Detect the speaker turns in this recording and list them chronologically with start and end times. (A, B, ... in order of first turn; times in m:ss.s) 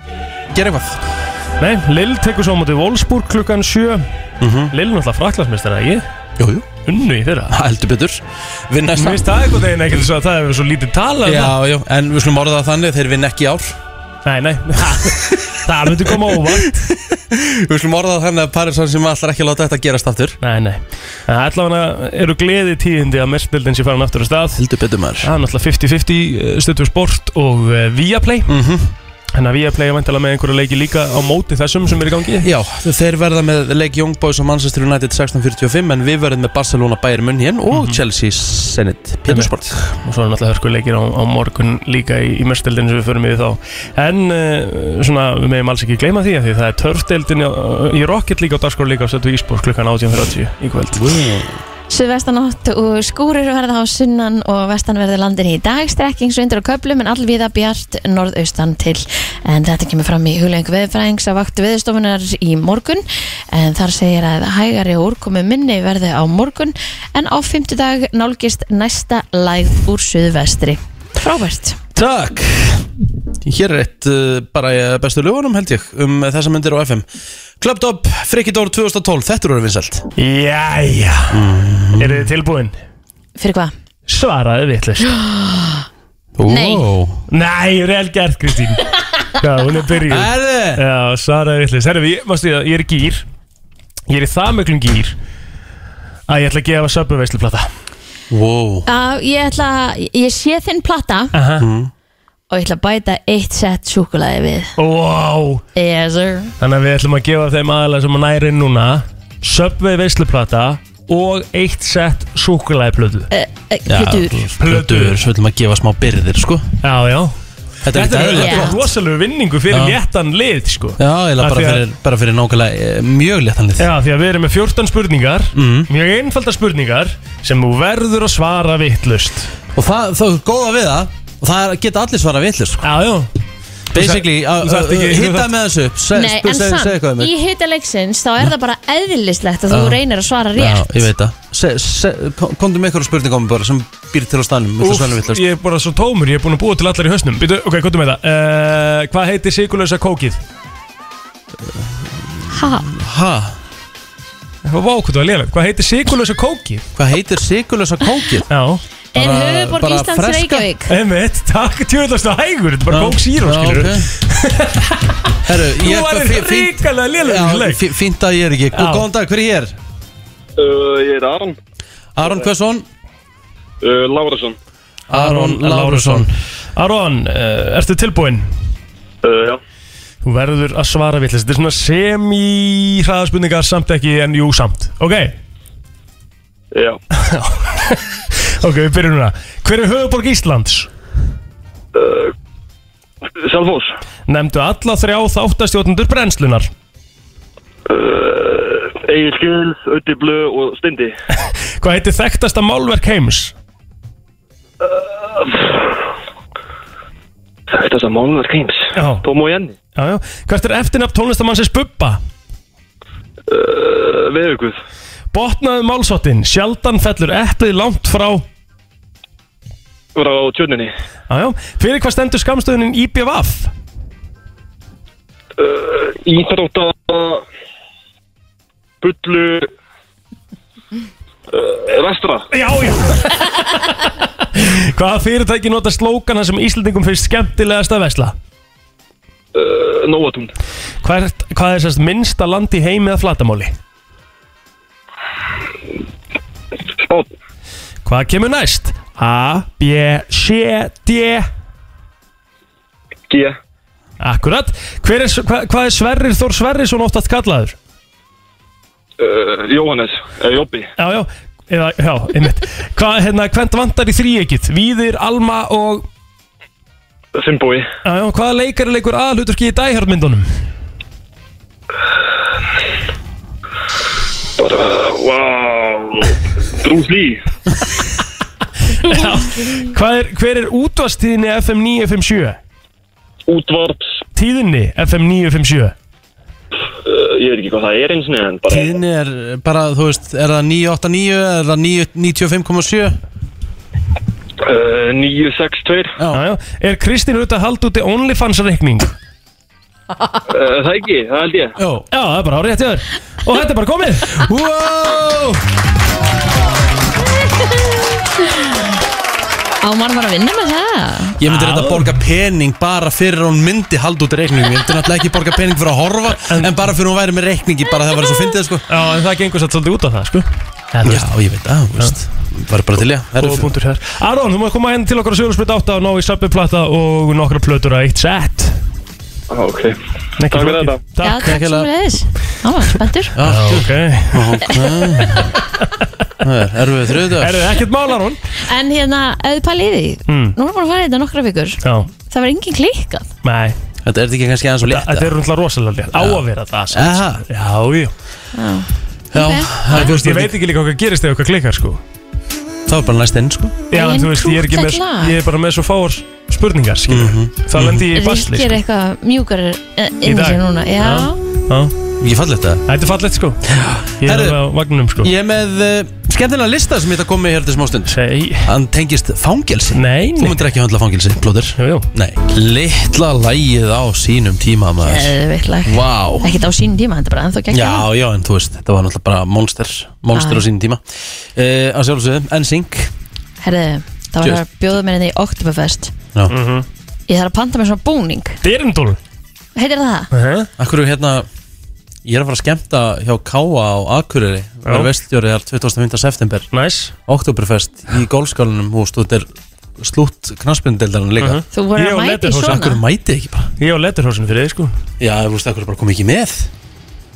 0:00.5-0:01.0 A
0:01.6-0:04.1 B
0:04.4-0:04.7 A
0:04.7-0:06.0 B
0:06.4-0:06.7 A
0:06.9-0:07.6 B
0:07.5-0:09.4 A
0:09.0-0:11.6 B
0:11.2-0:13.8 A
0:14.3-0:16.8 B
0:15.0-0:15.4 A
0:16.1-0:20.4 A
0:20.4-0:24.6 B
0:24.6-0:25.3 A
0:25.2-0:28.6 B
0:28.5-0:28.9 A
0:29.4-0:32.5 B
0:32.4-0:39.8 A
0:37.7-0:38.0 B
0:39.3-0:51.2 B
0:51.0-0:51.6 A
0:51.9-1:11.8 C
1:12.0-1:12.9 A
1:13.4-1:17.0 A
1:17.6-1:20.0 A
1:20.2-1:22.7 B
1:21.3-1:22.3 A
1:23.4-1:23.7 C
1:24.1-1:25.1 B
1:25.0-1:25.8 C
1:26.4-1:27.2 A
1:26.5-1:26.9 C
1:27.3-1:33.2 B
1:30.1-1:30.8 A
1:34.1-1:35.2 B
1:36.3-1:37.7 B
1:38.3-1:38.9 A
1:38.9-1:41.3 C
1:41.3-1:41.7 B
1:41.6-1:41.9 A
1:42.5-1:44.8 C
1:44.8-1:45.6 B
1:45.8-1:46.5 C
1:46.6-1:53.3 B
1:53.3-1:54.5 C
1:53.9-1:56.7 A
1:54.6-1:55.2 B
1:56.8-1:57.4 B
1:57.8-1:58.8 A
1:57.9-2:01.8 B
1:58.4-1:58.8 C
1:59.7-2:00.0 A
2:01.0-2:03.9 A
2:03.8-2:09.5 B
2:05.5-2:05.9 A
2:09.8-2:12.9 A
2:12.8-2:13.3 B
2:13.9-2:17.3 A
2:13.9-2:15.5 B
2:16.2-2:21.1 C
2:19.7-2:20.0 A
2:20.6-2:25.4 A
2:24.8-2:30.4 B
2:31.7-2:33.6 A
2:32.5-2:32.9 C
2:34.6-2:36.8 B
2:37.0-2:38.5 A
2:38.5-2:38.8 B
2:39.1-2:40.9 C
2:39.2-2:40.7 A
2:40.9-2:47.8 B
2:42.9-2:44.1 A
2:45.4-2:49.8 A
2:48.7-2:49.0 B
2:50.6-2:51.6 D
2:52.2-2:52.8 A
2:53.8-2:54.6 D
2:55.1-2:56.3 A
2:55.1-2:58.5 B
2:59.2-2:59.6 D
3:00.2-3:05.4 B
3:06.7-3:07.0 D
3:07.1-3:10.9 B
3:11.9-3:12.3 D
3:13.4-3:13.9 D
3:14.3-3:16.7 B
3:17.9-3:21.2 D
3:21.4-3:23.5 B
3:24.8-3:26.1 D
3:27.7-3:29.8 D
3:29.0-3:29.2 B
3:30.0-3:32.2 B
3:33.5-3:34.8 D
3:35.3-3:38.4 B
3:40.2-3:40.9 D
3:41.3-3:43.7 B
3:45.6-3:47.4 D
3:49.0-3:49.7 D
3:51.5-3:52.5 D
3:52.5-3:58.4 B
3:59.5-4:00.5 D
4:01.0-4:03.8 B
4:07.0-4:07.3 D
4:08.0-4:11.5 B
4:13.3-4:13.6 D
4:14.2-4:17.8 B
4:19.2-4:20.9 D
4:21.0-4:26.1 B
4:27.4-4:27.9 D
4:28.0-4:30.5 B
4:34.6-4:37.4 D
4:39.0-4:42.6 B
4:43.5-4:44.2 D
4:44.4-4:45.9 B
4:46.9-4:49.0 D
4:48.7-4:53.2 A
4:54.6-4:56.2 D
4:56.2-4:56.4 A
4:56.3-4:59.1 B
5:00.5-5:01.8 D
5:01.8-5:02.1 A
5:02.1-5:04.3 B
5:04.3-5:05.6 A
5:09.8-5:11.4 C
5:11.4-5:18.8 A
5:11.4-5:12.2 B
5:18.9-5:21.3 B
5:21.0-5:23.7 A
5:23.4-5:28.8 B
5:29.5-5:31.0 D
5:30.4-5:31.6 B
5:31.2-5:33.4 C
5:31.4-5:31.9 A
5:33.4-5:35.5 A
5:33.4-5:35.5 B
5:36.4-5:37.7 A
5:37.3-5:38.5 B
5:38.6-5:43.3 C
5:40.3-5:40.6 B
5:41.8-5:42.1 B
5:43.4-5:43.8 B
5:44.0-5:45.3 A
5:44.8-5:48.1 B
5:46.1-5:47.4 A
5:48.5-5:50.1 C
5:49.3-5:50.5 A
5:49.9-5:52.0 B
5:52.9-5:53.8 A
5:53.9-5:58.8 B
5:53.9-5:55.4 C
5:57.1-5:58.1 A
5:58.1-6:01.4 C
6:00.2-6:02.0 B
6:02.2-6:02.8 A
6:02.9-6:03.7 B
6:03.7-6:04.6 A
6:04.2-6:05.3 B
6:05.2-6:15.4 A
6:08.1-6:08.7 B
6:09.9-6:10.6 B
6:11.8-6:12.1 B
6:15.0-6:18.1 C
6:15.9-6:16.6 A
6:17.7-6:23.1 A
6:20.3-6:20.6 C
6:23.6-6:26.1 C
6:26.5-6:26.9 B
6:27.3-6:28.6 C
6:28.6-6:29.2 B
6:29.8-6:30.3 C
6:30.3-6:30.7 B
6:30.8-6:31.5 A
6:32.2-6:36.7 A
6:36.7-6:37.1 B
6:37.3-6:41.6 A
6:41.4-6:42.9 B
6:41.7-6:43.0 C
6:42.7-6:43.7 A
6:43.8-6:44.9 B
6:45.2-6:46.7 A